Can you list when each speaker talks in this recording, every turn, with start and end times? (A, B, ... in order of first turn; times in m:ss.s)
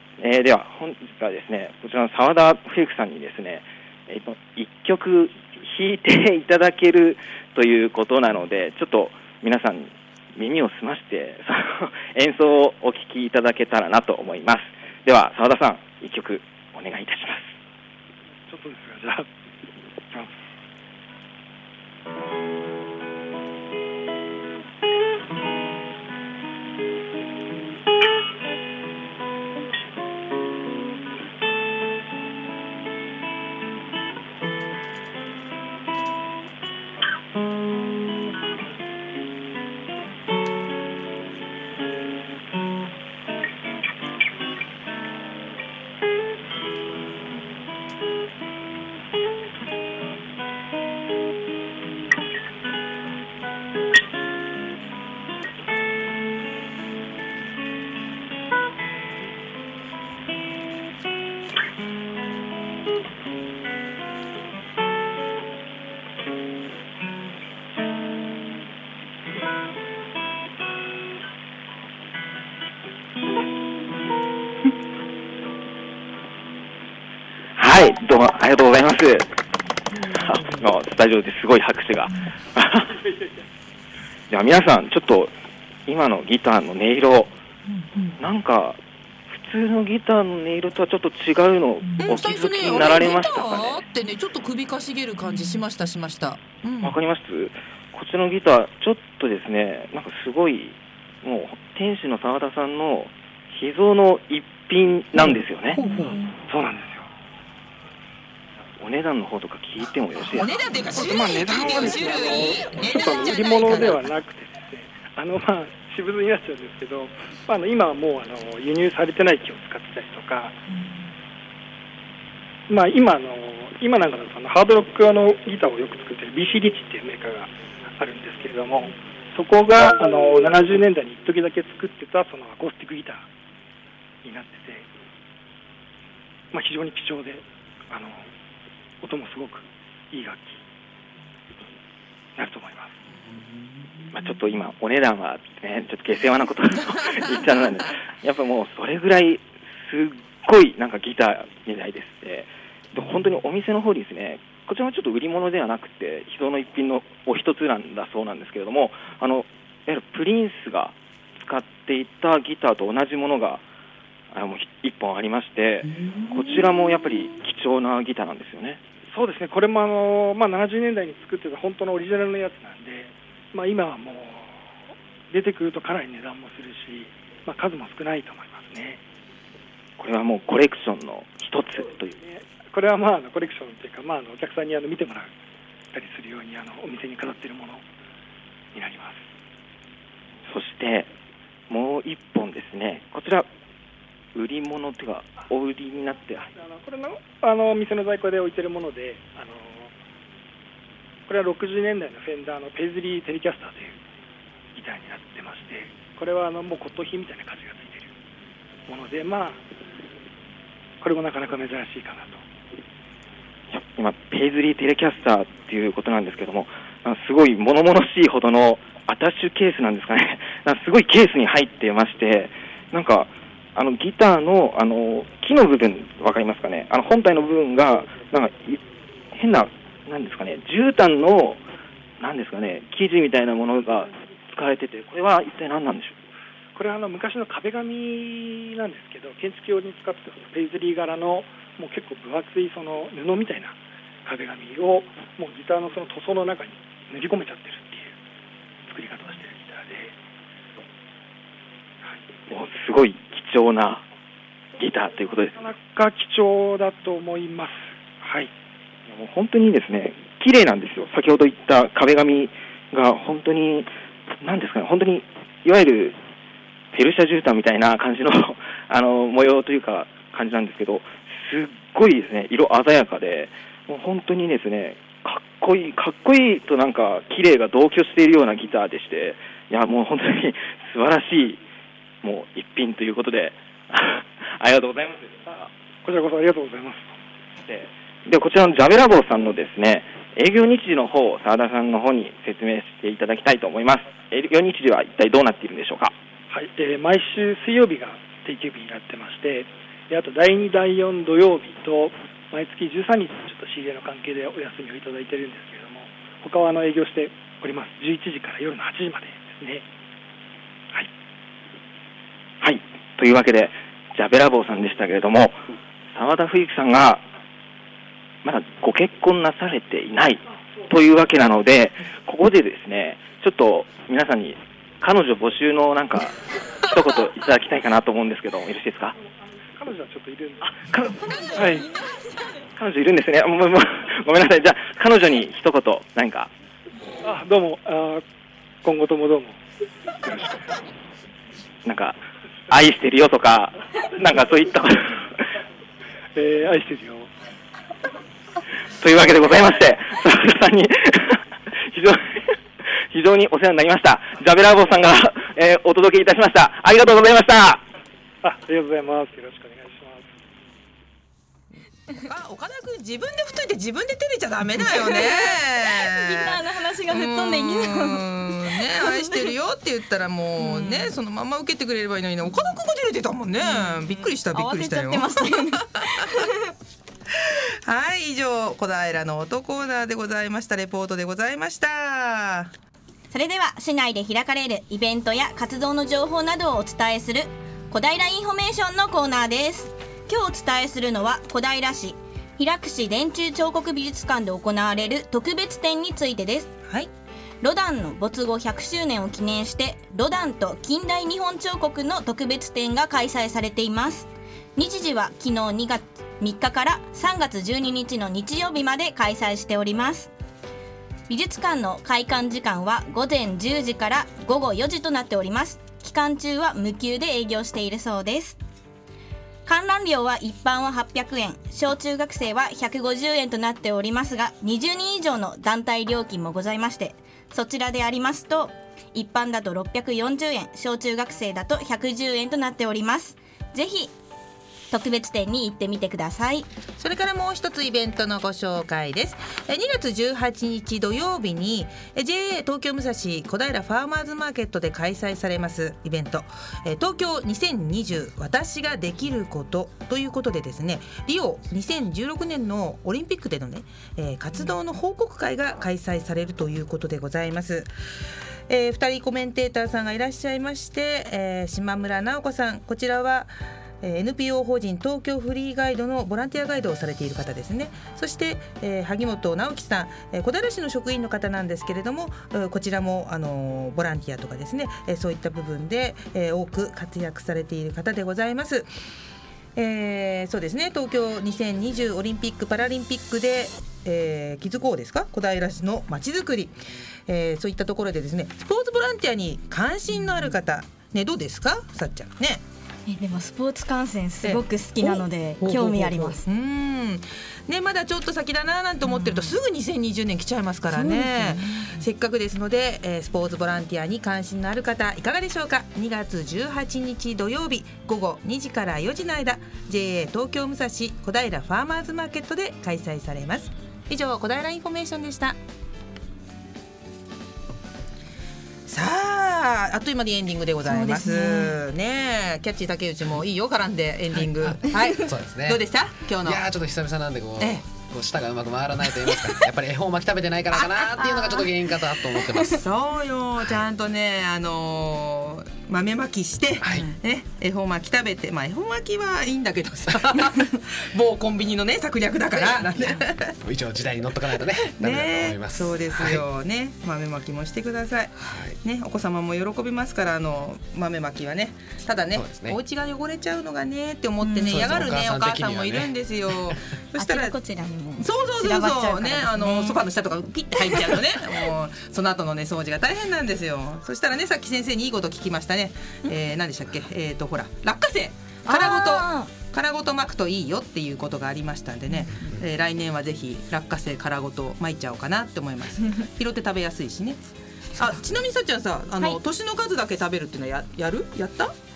0:00.2-0:17.5 A
0:18.5-0:19.3 B
1:17.6-1:19.3 A
1:20.1-1:23.0 A
1:24.3-1:25.3 A
1:25.9-1:27.3 A
1:27.7-1:28.2 C
1:28.2-1:33.8 A
1:32.0-1:37.0 C
1:36.8-1:45.8 A
1:45.7-1:46.2 C
1:45.8-1:46.3 D
1:46.5-1:47.1 B
1:48.8-1:50.6 A
1:50.4-1:54.0 C
1:50.9-2:00.6 B
2:02.7-2:13.3 B
2:14.2-2:14.9 B
2:16.5-2:18.3 B
2:19.0-2:20.6 B
2:22.4-2:22.9 B
2:24.1-2:43.6 A
2:44.3-2:48.8 A
2:49.1-2:54.6 B
2:55.3-2:59.0 B
3:00.0-3:02.2 A
3:02.2-3:05.3 B
3:05.9-3:07.8 B
3:08.7-3:09.2 B
3:10.4-3:11.1 A
3:11.7-3:13.5 A
3:14.3-3:16.5 A
3:16.5-3:19.9 B
3:21.3-3:24.0 B
3:24.7-3:28.1 B
3:28.9-3:29.6 B
3:31.0-3:32.4 B
3:33.7-3:48.8 A
3:49.3-3:51.6 A
3:52.2-3:56.2 A
3:56.7-4:08.1 B
4:08.9-4:10.1 B
4:12.5-4:14.0 A
4:14.8-4:15.6 A
4:15.6-4:18.5 B
4:19.1-4:26.2 A
4:26.9-4:41.6 A
4:42.2-4:45.7 A
4:46.0-4:47.1 B
4:47.7-4:56.1 A
4:56.5-5:09.8 B
5:12.6-5:15.6 A
5:16.1-5:17.2 A
5:18.4-5:29.2 A
5:29.7-5:31.8 B
5:31.3-5:32.3 D
5:32.8-5:36.5 A
5:37.2-5:38.2 B
5:38.8-5:39.6 B
5:40.3-5:40.5 B
5:41.8-5:42.2 A
5:42.7-5:45.3 A
5:46.3-5:47.3 B
5:49.0-5:52.5 A
5:53.1-5:57.8 A
5:58.4-6:00.3 B
6:02.2-6:16.4 C
6:04.8-6:09.5 D
6:10.6-6:11.1 D
6:13.6-6:16.5 D
6:17.4-6:22.7 C
6:23.3-6:36.7 D
6:37.6-6:50.3 D
6:51.3-6:58.6 D
6:59.6-7:14.1 D
7:14.9-7:16.7 D
7:17.0-7:37.9 C
7:38.7-7:58.9 C
7:59.8-8:06.8 C
8:07.3-8:12.6 C
8:13.1-8:16.4 D
8:14.4-8:35.6 C
8:19.0-8:19.5 D
8:20.9-8:22.0 D
8:38.9-8:46.6 C
8:40.8-8:41.8 D
8:44.6-8:45.8 E
8:46.4-8:52.8 E
8:50.8-8:51.6 C
8:51.2-8:51.5 D
8:52.4-8:52.6 D
8:52.8-9:03.5 C
8:56.8-8:57.1 E
9:03.6-9:06.4 E
9:04.9-9:17.5 C
9:08.4-9:08.8 E
9:12.3-9:12.8 E
9:14.4-9:14.8 D
9:14.6-9:16.1 E
9:17.2-9:20.0 D
9:18.2-9:37.4 C
9:20.7-9:21.4 D
9:28.7-9:29.5 D
9:38.0-9:41.7 C